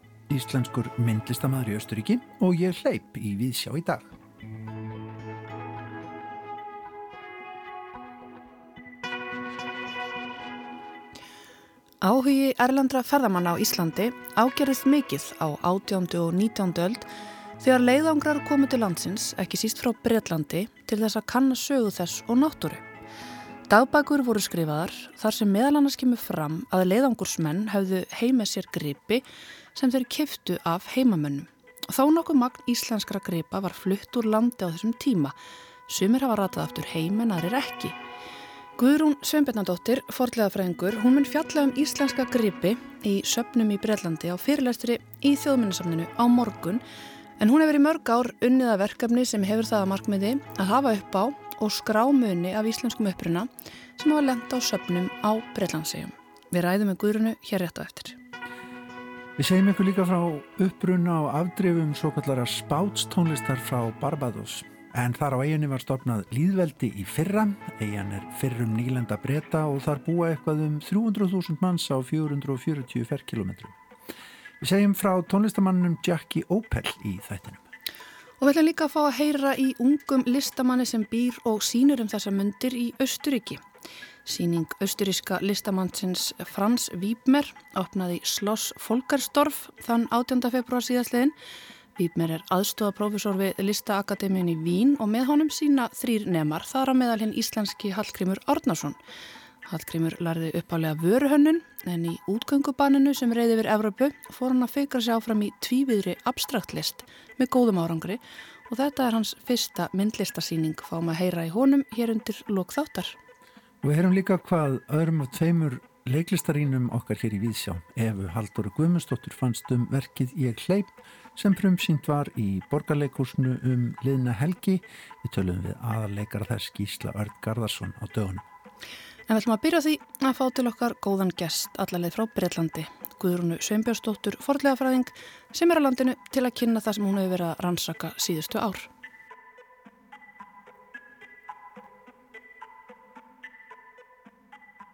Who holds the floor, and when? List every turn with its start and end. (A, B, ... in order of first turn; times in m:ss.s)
0:00.3-0:04.1 A
0:12.0-0:17.1 B
0:17.6-0:22.8 B
0:23.7-0:38.0 B
0:38.8-0:46.8 B
0:47.4-0:58.2 B
0:59.4-1:13.7 A
1:14.6-1:17.6 A
1:18.4-1:23.6 B
1:24.2-1:31.3 B
1:32.0-1:39.0 B
1:39.6-1:53.2 B
1:53.8-2:08.4 A
2:09.3-2:18.9 B